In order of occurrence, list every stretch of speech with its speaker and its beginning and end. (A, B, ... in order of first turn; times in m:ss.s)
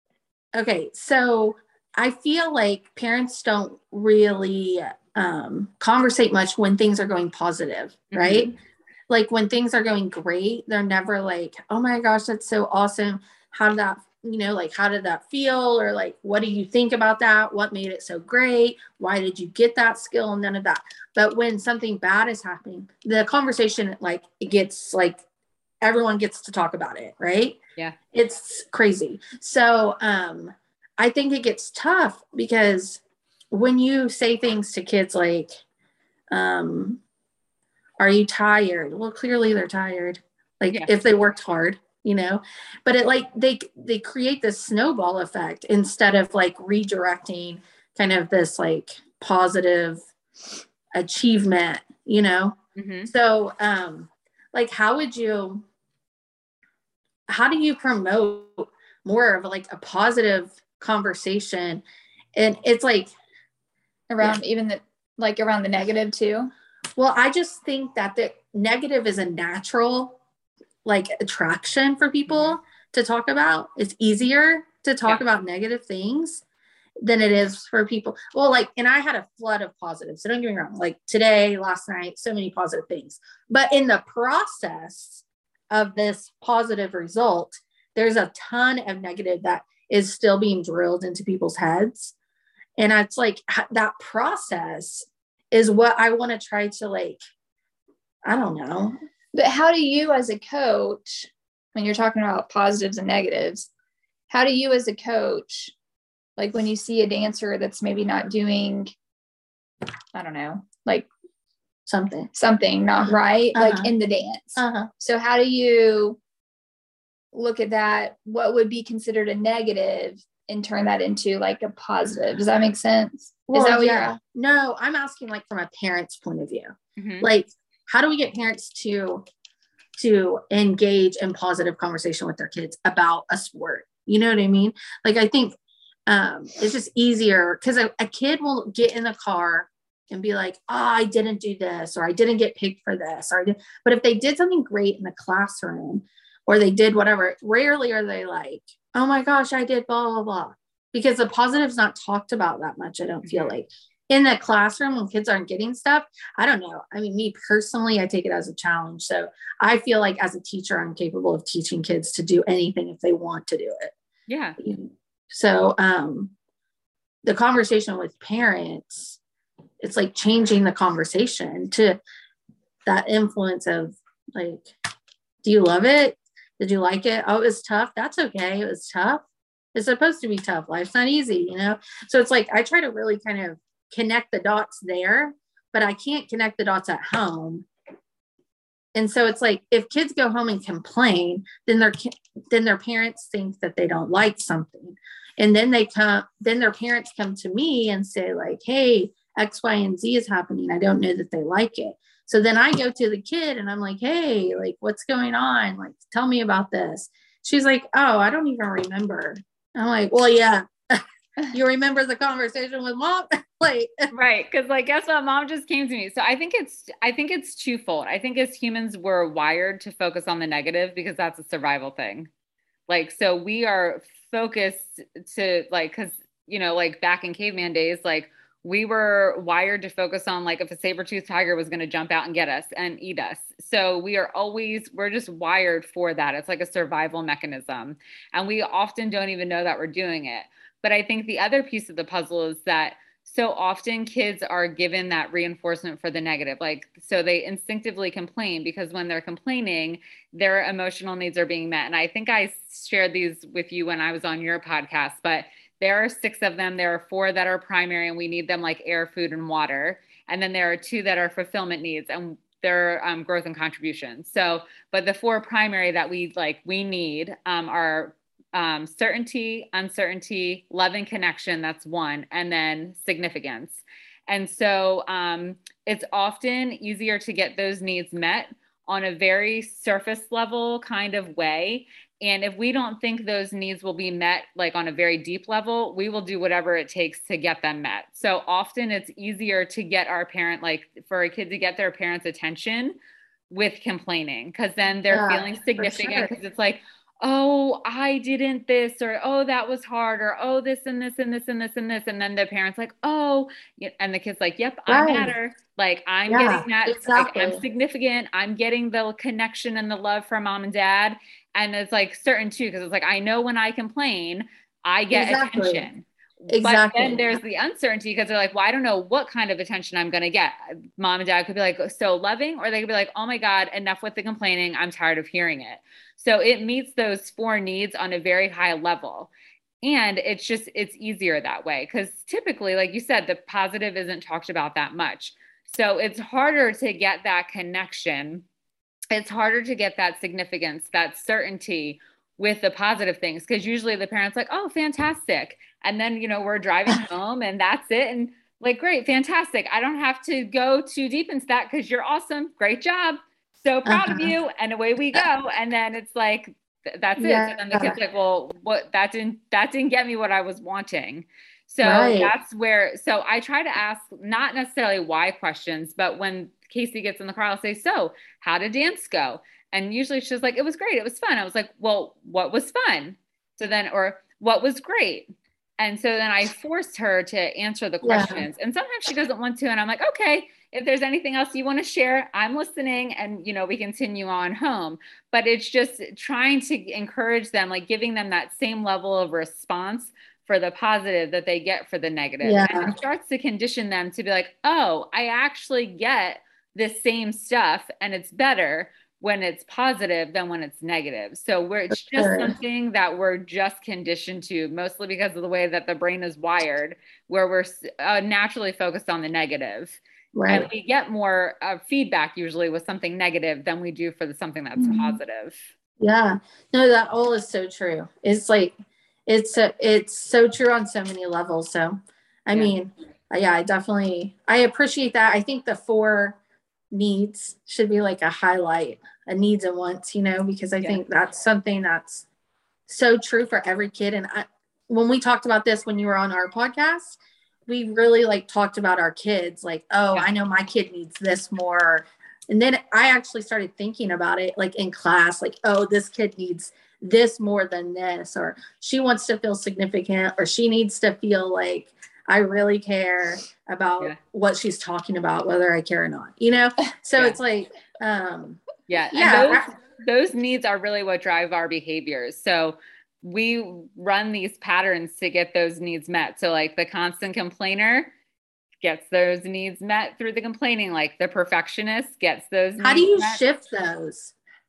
0:00.5-0:08.5 A
0:08.1-0:08.5 B
0:09.1-0:25.2 A
0:25.8-0:27.6 A
0:28.1-0:35.5 A
0:36.3-0:37.0 A
0:38.0-0:50.0 A
0:50.9-0:55.6 A
0:52.8-0:53.1 B
0:57.3-1:03.1 A
1:04.1-1:06.5 C
1:07.0-1:10.2 A
1:10.8-1:16.4 A
1:12.3-1:12.6 B
1:17.0-1:32.1 A
1:32.8-1:37.2 A
1:38.2-1:38.9 A
1:39.3-1:43.6 C
1:44.3-1:45.7 C
1:46.4-1:48.9 C
1:50.1-1:51.1 C
1:51.8-1:52.3 A
1:52.3-1:56.2 C
1:53.5-1:53.9 A
1:54.6-1:54.9 A
1:57.3-2:04.2 C
2:03.5-2:09.2 A
2:07.0-2:07.3 B
2:10.0-2:43.9 A
2:33.2-2:33.6 B
2:44.3-2:44.6 B
2:44.6-2:46.3 A
2:47.2-2:49.2 A
2:49.8-2:52.0 A
2:52.8-2:54.7 A
2:55.4-3:07.7 A
3:08.9-3:34.1 A
3:34.1-3:42.3 B
3:42.9-4:53.0 B
4:53.5-5:29.3 B
4:55.1-4:56.3 A
5:04.9-5:05.3 A
5:06.3-5:07.6 A
5:15.1-5:15.9 A
5:16.5-5:17.4 A
5:29.8-5:38.4 B
5:39.1-6:15.3 B
5:53.8-5:54.3 A
5:57.2-5:58.0 A
6:01.8-6:02.3 A
6:15.8-6:55.6 B
6:18.0-6:18.4 A
6:32.4-6:32.9 A
6:42.1-6:42.5 A
6:50.3-6:50.7 A
6:54.8-6:55.2 C
6:56.0-7:06.4 A
7:06.9-7:12.2 A
7:12.9-7:38.6 A
7:38.9-7:48.1 B
7:39.1-7:39.7 A
7:48.8-7:53.4 B
7:52.8-7:54.3 A